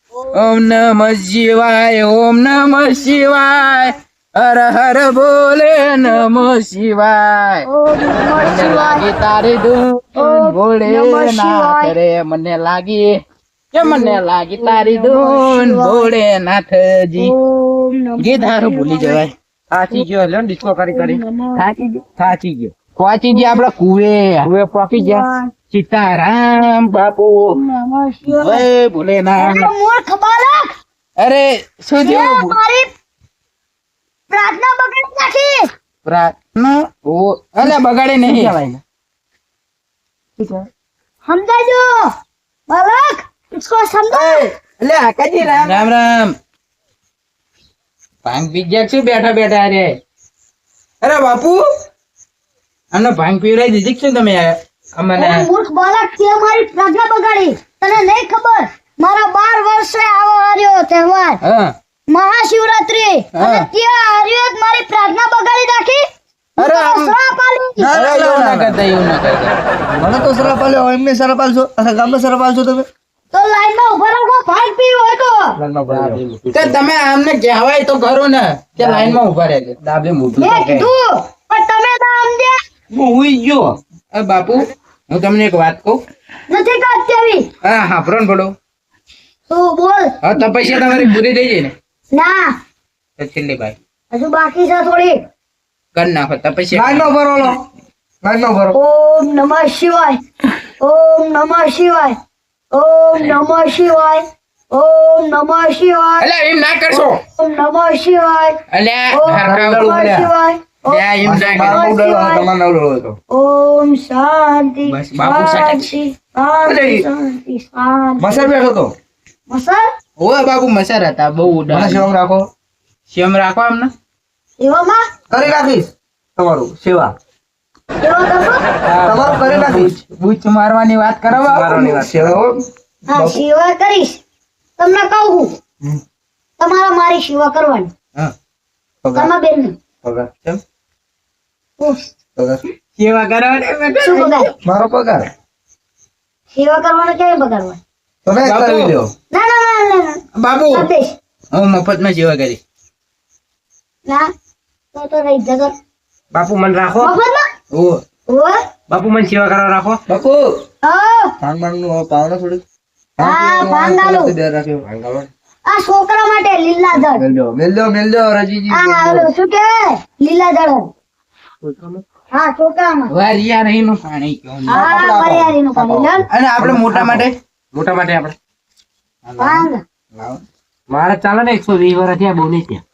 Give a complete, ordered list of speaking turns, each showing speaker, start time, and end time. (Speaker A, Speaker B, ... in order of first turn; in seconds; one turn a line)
Speaker A: 0.3-7.7
Speaker B: 7.7-9.1
Speaker A: 8.4-13.2
Speaker B: 10.2-12.0
Speaker A: 13.7-17.3
Speaker B: 13.8-16.1
Speaker B: 17.2-19.2
Speaker A: 18.2-19.3
Speaker C: 19.7-21.2
Speaker B: 20.9-21.7
Speaker A: 21.1-25.2
Speaker B: 23.3-23.6
Speaker C: 24.4-25.2
Speaker B: 24.9-25.5
Speaker A: 25.7-27.6
Speaker B: 27.5-28.6
Speaker A: 28.3-29.7
Speaker B: 29.4-30.7
Speaker A: 31.2-32.6
Speaker B: 32.0-32.9
Speaker B: 34.3-35.7
Speaker A: 36.0-38.5
Speaker C: 37.6-38.8
Speaker B: 41.2-42.1
Speaker B: 42.7-44.5
Speaker A: 44.1-46.3
Speaker C: 45.5-45.8
Speaker A: 48.2-49.9
Speaker A: 51.0-51.6
Speaker A: 52.9-55.5
Speaker B: 55.1-61.4
Speaker A: 61.4-61.7
Speaker B: 62.1-66.0
Speaker A: 63.4-63.7
Speaker A: 66.6-67.2
Speaker B: 66.6-68.0
Speaker D: 67.8-68.8
Speaker A: 67.9-70.8
Speaker D: 70.0-72.8
Speaker B: 73.3-75.5
Speaker D: 75.6-76.2
Speaker C: 75.9-76.8
Speaker A: 75.9-79.8
Speaker C: 78.8-79.2
Speaker C: 79.8-80.6
Speaker A: 80.3-80.9
Speaker B: 80.4-82.5
Speaker A: 82.9-86.0
Speaker B: 86.5-87.5
Speaker A: 87.6-88.5
Speaker B: 89.5-90.1
Speaker A: 90.2-91.7
Speaker B: 92.1-92.5
Speaker A: 93.2-93.8
Speaker B: 94.1-95.2
Speaker A: 96.0-97.5
Speaker D: 96.7-97.6
Speaker D: 98.2-98.8
Speaker B: 98.7-100.2
Speaker B: 100.8-102.1
Speaker B: 102.7-106.3
Speaker A: 106.2-107.2
Speaker B: 106.9-108.6
Speaker A: 108.7-110.3
Speaker B: 109.1-112.5
Speaker D: 109.4-109.8
Speaker A: 110.9-111.8
Speaker D: 111.2-113.2
Speaker B: 113.3-118.5
Speaker A: 114.9-115.9
Speaker D: 116.6-117.0
Speaker D: 118.2-118.9
Speaker B: 119.5-119.8
Speaker A: 120.2-122.1
Speaker D: 121.7-122.5
Speaker A: 123.1-123.9
Speaker B: 124.6-125.0
Speaker D: 125.3-127.1
Speaker B: 128.0-128.6
Speaker A: 128.9-132.0
Speaker D: 129.0-130.0
Speaker C: 131.3-132.4
Speaker D: 131.7-133.4
Speaker B: 133.1-134.2
Speaker B: 134.8-135.6
Speaker B: 136.6-137.9
Speaker B: 139.1-139.8
Speaker A: 140.0-140.6
Speaker D: 142.4-142.6
Speaker A: 143.0-144.5
Speaker B: 144.0-144.5
Speaker D: 144.6-145.2
Speaker B: 146.5-147.8
Speaker D: 148.2-149.1
Speaker A: 148.4-149.0
Speaker B: 149.3-150.2
Speaker A: 150.4-150.9
Speaker B: 150.7-151.2
Speaker A: 151.5-152.6
Speaker B: 154.9-155.7
Speaker C: 156.3-157.2
Speaker B: 157.0-157.4
Speaker A: 157.7-158.0
Speaker B: 158.3-158.6
Speaker C: 158.9-160.0
Speaker D: 160.1-160.5
Speaker B: 160.8-161.3
Speaker D: 161.4-162.6
Speaker D: 163.2-164.8
Speaker B: 163.2-164.3
Speaker C: 164.9-165.3
Speaker B: 165.7-167.2
Speaker D: 167.0-169.3
Speaker B: 168.7-170.9
Speaker C: 171.6-172.0
Speaker B: 172.3-173.1
Speaker A: 173.1-174.9
Speaker B: 174.7-176.2
Speaker D: 174.7-176.1
Speaker A: 176.3-177.3
Speaker D: 176.6-177.2
Speaker C: 176.7-177.2
Speaker C: 177.7-178.3
Speaker A: 179.3-180.4
Speaker B: 179.4-179.8
Speaker C: 180.9-182.8